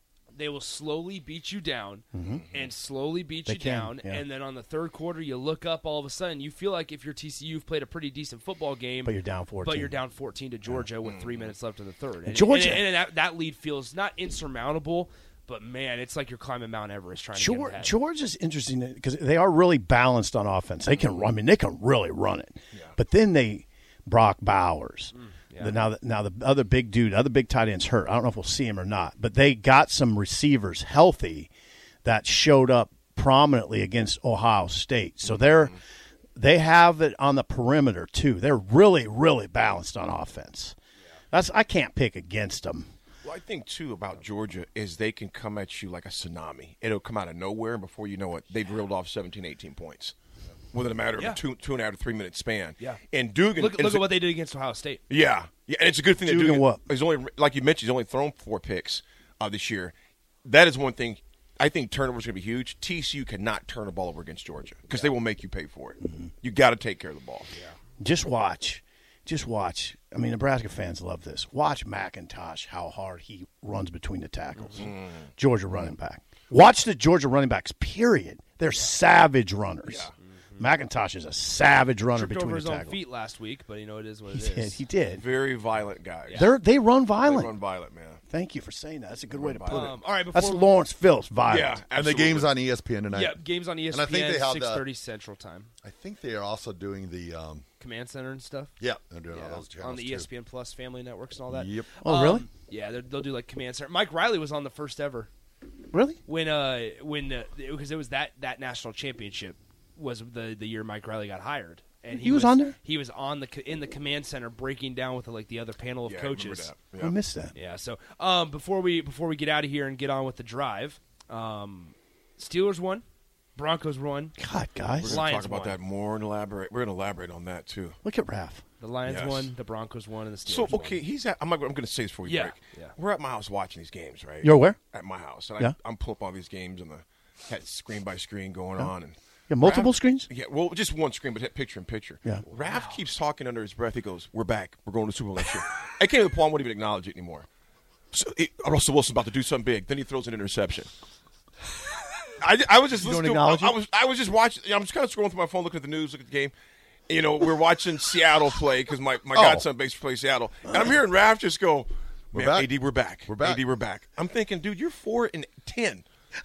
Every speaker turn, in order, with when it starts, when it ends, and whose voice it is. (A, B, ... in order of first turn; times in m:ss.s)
0:00.3-0:18.0 A
0:02.1-0:02.4 B
0:03.5-0:04.2 B
0:09.0-0:10.0 B
0:11.0-0:11.5 C
0:12.2-0:13.1 B
0:17.4-0:31.5 B
0:21.0-0:21.3 C
0:25.1-0:25.8 A
0:32.0-0:35.8 B
0:36.4-0:40.8 B
0:41.3-0:42.9 B
0:43.2-0:50.2 C
0:50.7-0:54.2 C
0:51.2-0:51.4 A
0:53.6-0:55.0 A
0:55.1-0:59.9 C
0:56.2-0:56.8 B
1:00.4-1:07.5 C
1:08.0-1:23.0 B
1:14.8-1:15.3 C
1:19.8-1:20.1 C
1:22.1-1:24.8 A
1:24.3-1:25.3 B
1:25.1-1:26.5 C
1:26.3-1:26.6 A
1:26.3-1:27.6 B
1:27.2-1:28.2 C
1:28.3-1:31.8 B
1:29.3-1:29.9 C
1:29.7-1:30.7 A
1:31.5-1:32.6 C
1:31.9-1:34.8 D
1:33.1-1:35.7 A
1:35.8-1:37.6 D
1:37.8-1:38.7 A
1:38.8-1:40.3 D
1:39.3-1:45.3 A
1:41.5-1:42.0 D
1:42.0-1:42.5 B
1:45.9-1:46.2 B
1:46.3-1:56.7 A
1:52.1-1:52.8 B
1:56.0-1:57.2 C
1:57.0-1:57.5 B
1:57.6-2:03.0 A
2:03.6-2:04.4 A
2:04.4-2:05.2 B
2:05.0-2:08.0 C
2:05.0-2:05.8 A
2:08.0-2:08.6 B
2:08.8-2:11.0 A
2:09.1-2:09.5 C
2:10.4-2:27.5 C
2:12.2-2:12.9 A
2:14.4-2:14.8 B
2:19.5-2:20.3 B
2:22.5-2:23.0 A
2:28.1-2:30.9 C
2:32.4-2:36.5 C
2:33.0-2:33.8 B
2:37.1-2:46.0 C
2:39.3-2:39.6 D
2:42.3-2:42.7 D
2:43.2-2:43.6 D